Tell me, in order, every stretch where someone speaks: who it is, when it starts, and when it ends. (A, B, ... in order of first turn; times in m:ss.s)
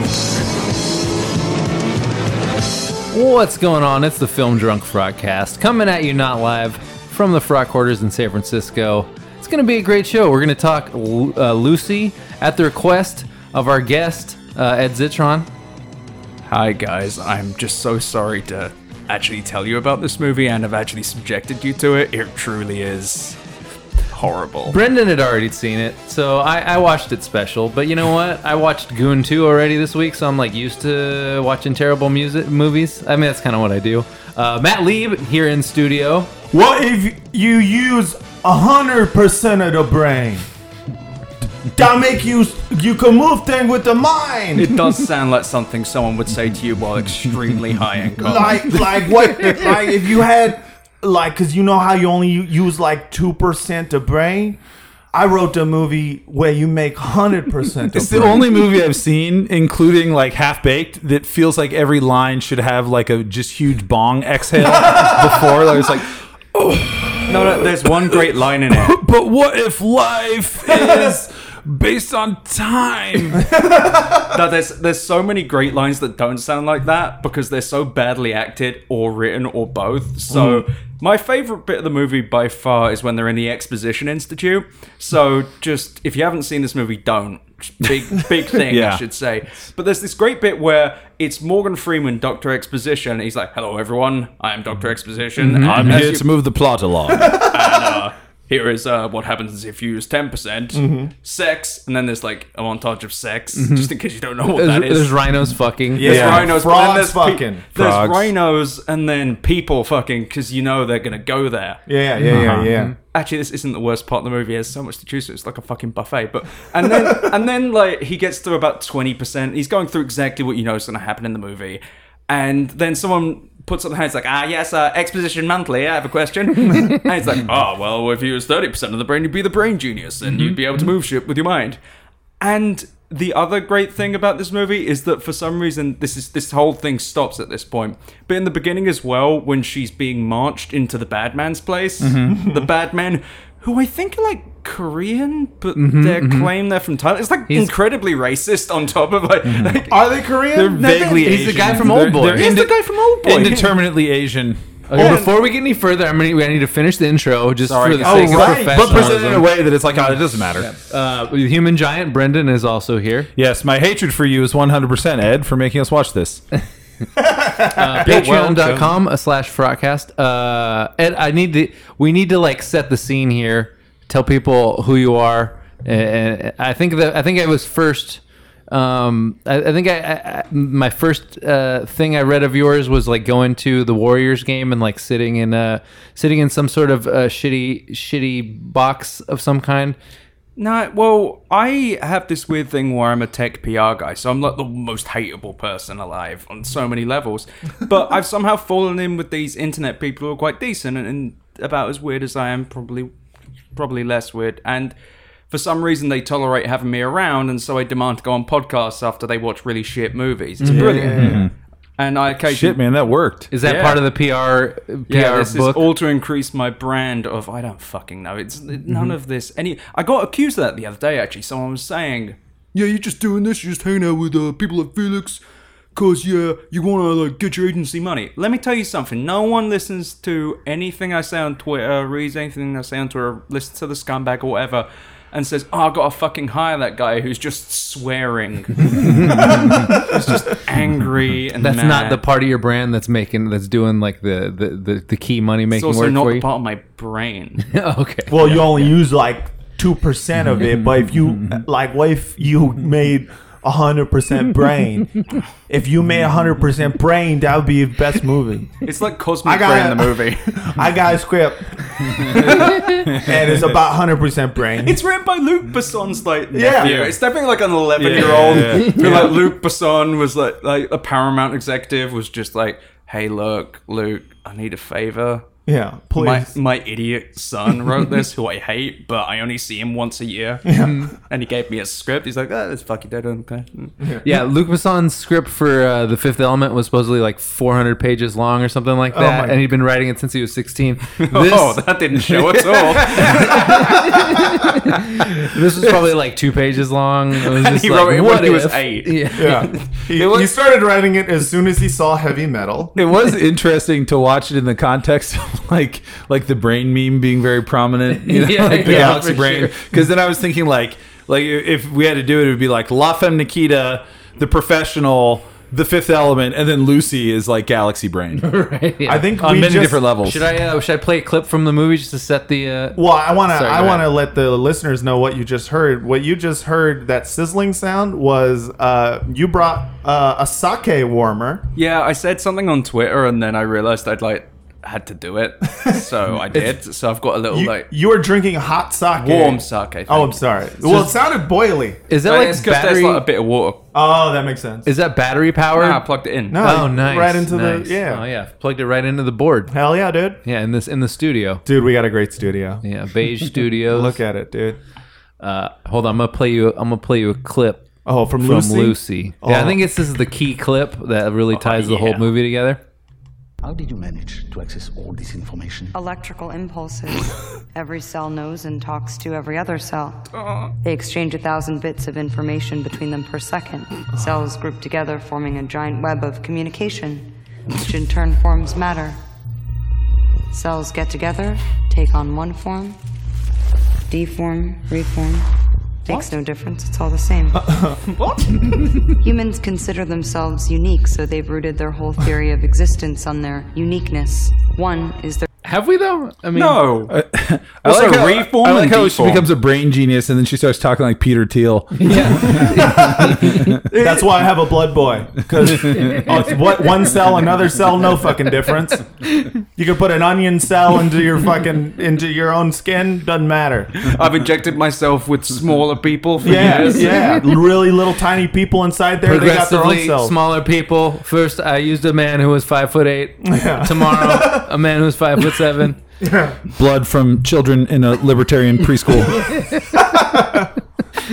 0:03.1-0:15.5 A
0:16.5-0:23.4 B
0:24.1-0:24.8 B
0:24.7-0:36.3 A
0:36.5-0:40.5 C
0:41.7-0:44.7 C
0:44.6-0:48.8 B
0:48.2-0:54.6 C
0:55.1-0:58.6 C
0:57.9-1:13.5 D
1:04.9-1:05.3 C
1:07.3-1:09.0 B
1:13.4-1:14.2 C
1:14.3-1:36.3 B
1:20.3-1:20.6 C
1:28.7-1:29.0 D
1:35.4-1:36.0 A
1:35.5-1:37.5 D
1:37.2-1:38.0 C
1:37.5-1:45.2 B
1:40.7-1:41.1 C
1:43.6-1:43.9 A
1:44.6-1:46.4 A
1:45.9-1:47.6 C
1:46.0-1:51.8 B
1:46.0-1:46.5 D
1:47.7-1:48.3 D
1:51.9-1:52.9 C
1:52.2-1:52.9 A
1:52.3-1:52.7 D
1:53.1-2:11.8 B
1:56.8-1:57.2 C
2:12.4-2:30.0 B
2:22.0-2:22.4 D
2:22.3-2:22.6 C
2:25.8-2:26.5 A
2:29.4-2:29.8 D
2:29.9-2:30.9 C
2:30.5-2:34.6 D
2:30.6-2:33.7 B
2:31.2-2:32.5 A
2:34.9-2:39.5 A
2:34.9-2:35.3 B
2:35.0-2:35.2 C
2:37.6-2:38.4 B
2:38.0-2:40.7 D
2:38.0-2:39.1 C
2:40.6-2:43.3 A
2:43.4-2:46.4 D
2:47.2-2:48.5 C
2:47.7-3:10.0 A
3:10.6-3:23.1 B
3:23.8-3:25.0 B
3:25.5-3:31.4 B
3:30.6-3:31.2 A
3:30.7-3:31.5 C
3:30.8-3:31.5 D
3:32.0-3:32.8 B
3:32.5-3:33.5 D
3:33.5-3:35.9 A
3:33.6-3:34.0 B
3:35.1-3:45.4 B
3:38.9-3:39.1 D
3:46.0-4:02.2 B
3:59.0-3:59.9 A
4:01.6-4:06.4 A
4:05.7-4:07.7 B
4:07.7-4:08.6 A
4:08.3-4:18.8 C
4:10.5-4:11.6 D
4:18.8-4:20.6 B
4:19.4-4:25.0 C
4:22.2-4:23.6 D
4:22.4-4:23.0 B
4:24.8-4:35.4 B
4:26.5-4:27.1 C
4:28.0-4:29.4 D
4:35.7-4:36.5 C
4:36.2-4:40.7 B
4:40.6-4:41.1 C
4:41.3-4:43.9 B
4:44.0-4:44.4 C
4:44.2-4:51.8 A
4:49.1-4:49.6 C
4:51.2-4:54.2 B
4:53.1-4:59.7 A
4:57.4-4:59.8 B
4:59.4-5:02.9 C
5:00.2-5:00.5 D
5:03.0-5:18.4 D
5:08.1-5:09.8 A
5:18.4-5:19.4 A
5:19.1-5:20.0 C
5:19.4-5:20.4 D
5:20.2-5:24.1 A
5:23.0-5:31.6 C
5:31.8-5:37.9 B
5:37.5-5:42.0 C
5:39.2-5:40.4 B
5:42.1-5:43.2 A
5:42.2-5:43.8 B
5:43.9-5:44.9 C
5:44.9-5:49.7 A
5:45.8-5:46.6 B
5:46.5-5:48.2 C
5:49.7-5:50.4 C
5:50.4-5:51.6 A
5:51.7-5:52.8 C
5:52.8-5:54.2 A
5:53.6-5:54.8 C
5:55.4-6:02.8 A
5:58.1-5:59.8 C
6:01.5-6:02.2 B
6:03.6-6:05.9 E
6:05.9-6:10.3 F
6:10.3-6:10.7 B
6:10.8-6:19.2 F
6:20.5-6:23.0 F
6:24.1-6:25.5 F
6:26.0-6:27.7 F
6:27.5-6:28.1 C
6:28.2-6:28.9 B
6:29.2-6:35.5 F
6:35.6-6:36.8 A
6:36.6-6:37.1 B
6:37.1-6:43.8 D
6:37.8-6:39.4 B
6:42.0-6:43.5 A
6:42.6-6:49.2 C
6:43.9-6:44.4 B
6:45.6-6:46.3 D
6:49.8-6:54.1 C
6:54.0-6:57.3 B
6:56.4-7:00.4 C
6:56.5-6:57.5 A
6:59.2-7:06.0 A
7:03.4-7:04.7 C
7:06.2-7:06.6 C
7:06.8-7:09.6 D
7:09.9-7:10.7 C